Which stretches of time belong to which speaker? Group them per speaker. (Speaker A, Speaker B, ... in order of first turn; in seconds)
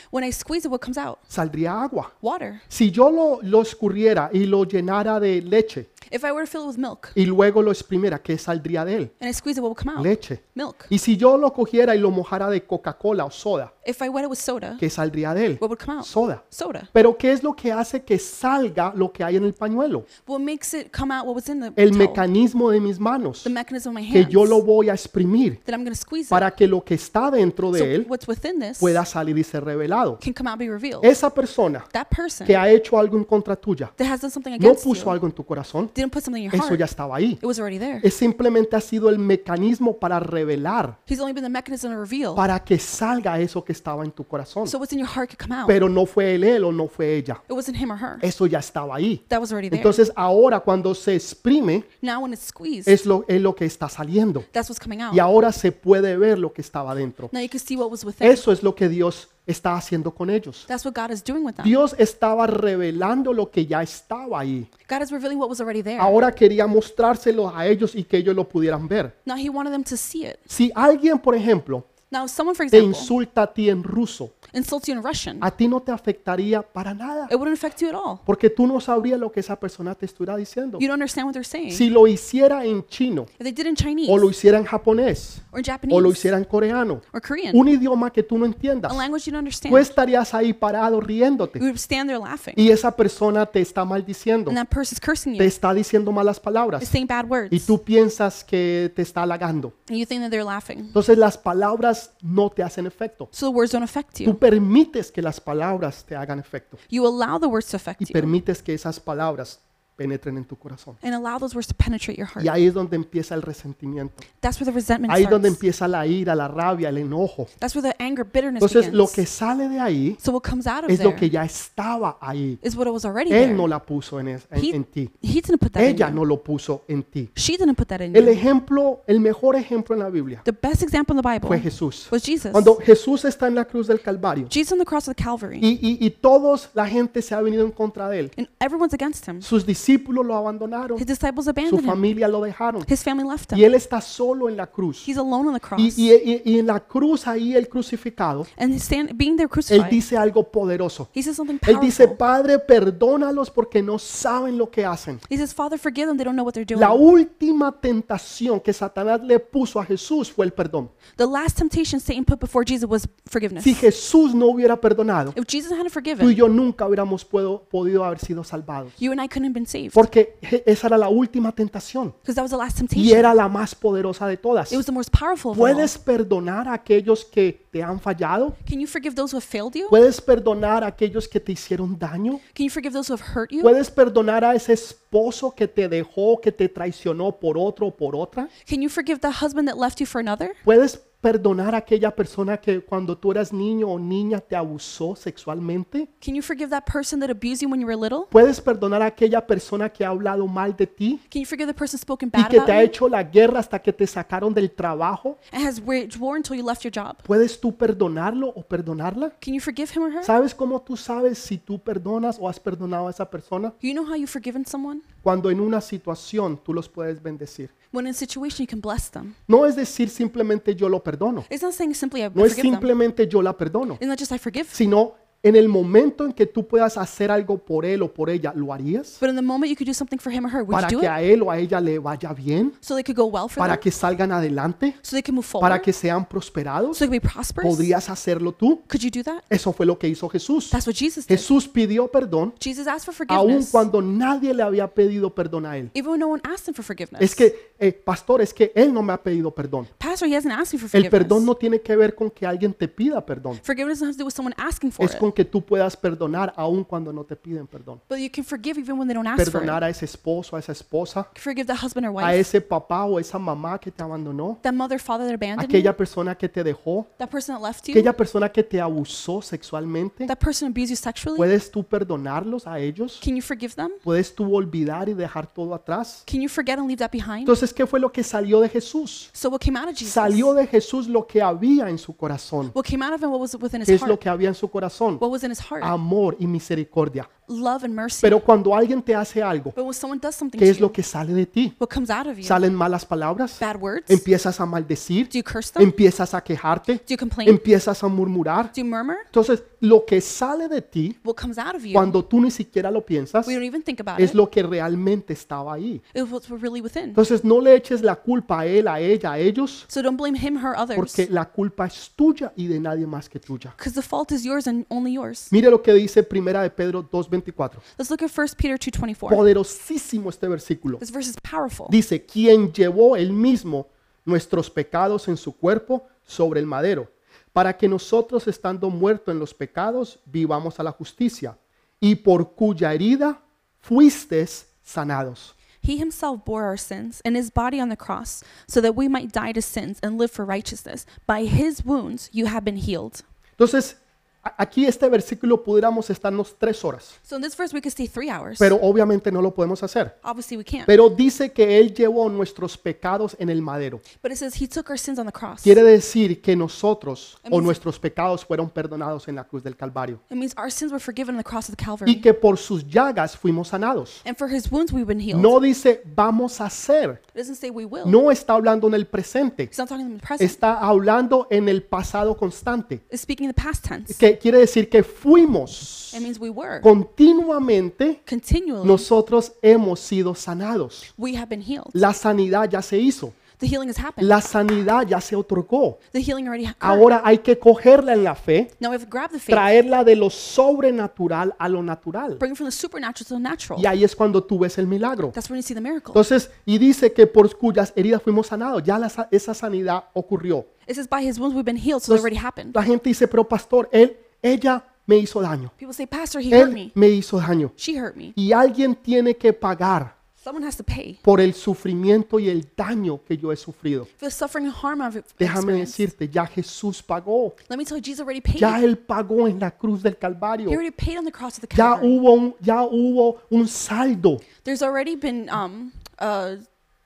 Speaker A: 0.1-1.2, 2.2-2.6, 6.0-7.2, 9.2-10.9, 13.8-14.8, 15.6-16.9, 20.2-22.3, 23.4-24.6, 25.6-26.5, 27.7-29.0, 30.2-31.1, 31.9-32.6, 34.0-35.2, 35.9-36.9, 37.4-38.1, 41.1-42.4, 44.6-45.8, 47.5-48.2, 49.3-50.0, 52.0-53.0, 54.5-55.3, 57.3-58.4, 60.7-61.8, 64.9-66.2, 69.2-70.5, 72.1-73.1, 74.5-75.5, 77.3-78.2, 80.8-81.9, 83.4-84.3, 85.5-86.3, 87.1-87.6, 88.9-89.9, 91.6-92.7, 94.5-95.5, 96.8-97.7, 99.9-101.0, 103.3-104.4, 106.9-108.3, 111.0-112.5, 114.4-115.6, 117.6-119.2, 120.2-121.3, 122.6-123.7, 124.5-126.2, 127.3-128.4, 130.4-132.8, 134.5-135.7, 138.4-139.5, 141.0-142.0, 142.8-143.7, 145.0-146.1, 148.6-150.0, 151.1-152.2, 155.3-157.0, 161.2-163.9, 165.3-166.4, 169.0-170.1, 172.2-173.3, 174.7-175.9, 178.6-180.0, 182.5-183.7, 188.6-190.6, 196.2-198.3, 201.3-202.9, 205.5-207.2, 209.4-210.3, 213.8-215.1, 217.9-219.4, 221.5-222.9, 224.0-224.8, 229.2-231.2, 232.8-233.8, 235.0-235.9, 236.9-237.9, 238.9-239.4, 240.7-241.5, 242.6-243.9, 245.9-247.4, 250.0-251.5, 253.6-255.2, 258.1-259.8, 261.3-262.5, 264.6-265.9, 267.2-268.1, 270.3-271.5, 273.2-274.0, 276.3-277.6, 279.3-280.5, 282.7-284.2, 285.2-285.9, 287.5-288.4, 289.7-291.0, 291.8-292.6, 293.6-294.2, 295.3-295.9, 297.1-297.6, 298.7-299.3, 301.2-302.2, 303.4-304.4, 306.1-307.2, 309.9-311.2, 313.8-315.5, 318.0-319.4, 321.0-321.9, 335.8-343.2, 347.2-348.8, 350.2-350.9, 354.1-355.8, 357.4-357.8, 360.3-362.2, 364.2-365.6, 367.3-368.2, 369.7-370.6, 373.1-374.2, 376.1-376.9, 378.2-379.1, 381.1-382.0, 383.6-384.4, 386.1-387.1, 388.8-389.7, 392.4-393.9, 395.3-396.2, 400.9-402.8, 405.8-406.9, 407.8-408.3, 410.4-411.2, 414.2-416.1, 417.7-418.8, 420.7-422.2, 424.6-426.6
Speaker B: 1.3-2.1, 2.7-5.9, 7.1-9.1, 9.9-13.7, 14.8-16.4, 16.9-20.1, 21.8-23.5, 24.1-25.6, 26.3-28.1, 28.8-30.2, 31.0-31.9, 32.4-33.9, 34.6-35.9, 36.5-37.4, 38.0-41.0, 42.4-44.7, 45.7-47.4, 48.2-51.9, 52.9-54.5, 55.1-57.3, 58.2-60.6, 61.6-64.7, 66.0-69.1, 70.5-71.9, 72.7-74.3, 75.4-77.3, 78.2-80.8, 81.7-83.3, 84.1-89.0, 89.7-91.6, 92.5-94.6, 95.4-96.9, 97.5-99.7, 100.9-103.3, 104.2-106.8, 108.0-111.0, 112.4-114.2, 115.1-117.5, 118.6-120.2, 120.9-122.6, 123.3-125.1, 125.8-127.3, 128.1-130.4, 131.4-134.5, 135.6-138.3, 139.4-141.0, 141.7-142.9, 143.5-145.1, 145.8-148.5, 149.7-151.1, 151.6-155.2, 156.7-160.9, 163.6-165.3, 166.2-168.9, 169.9-172.1, 172.9-174.8, 175.5-178.6, 179.9-182.4, 183.6-188.5, 190.6-196.1, 198.3-201.2, 202.3-205.4, 207.2-209.3, 210.2-213.7, 215.2-217.7, 219.5-221.5, 222.3-224.0, 224.7-229.2, 230.7-232.7, 233.6-235.0, 235.6-237.1, 237.6-238.8, 239.5-240.8, 241.3-242.5, 243.3-245.9, 247.2-249.9, 250.9-253.6, 255.0-258.0, 259.4-261.3, 262.2-264.6, 265.6-267.1, 267.9-270.3, 271.4-273.2, 274.0-276.2, 277.4-279.3, 280.0-282.7, 283.9-285.2, 285.8-287.3, 288.2-289.7, 290.6-291.7, 292.4-298.7, 299.3-301.2, 301.9-303.6, 304.2-306.0, 307.1-309.9, 310.9-313.7, 315.5-317.8, 319.3-321.0, 321.9-335.5, 343.6-347.1, 348.6-350.1, 350.9-354.0, 355.6-360.2, 362.1-364.2, 365.3-367.2, 368.0-369.7, 370.4-373.0, 374.1-376.3, 376.8-378.2, 378.8-381.1, 381.9-383.4, 384.2-386.0, 386.8-388.7, 389.5-392.4, 393.8-395.3, 396.1-400.7, 402.1-405.7, 406.5-407.7, 408.4-410.1, 411.2-414.1, 415.4-417.5, 418.6-420.8, 421.7-424.4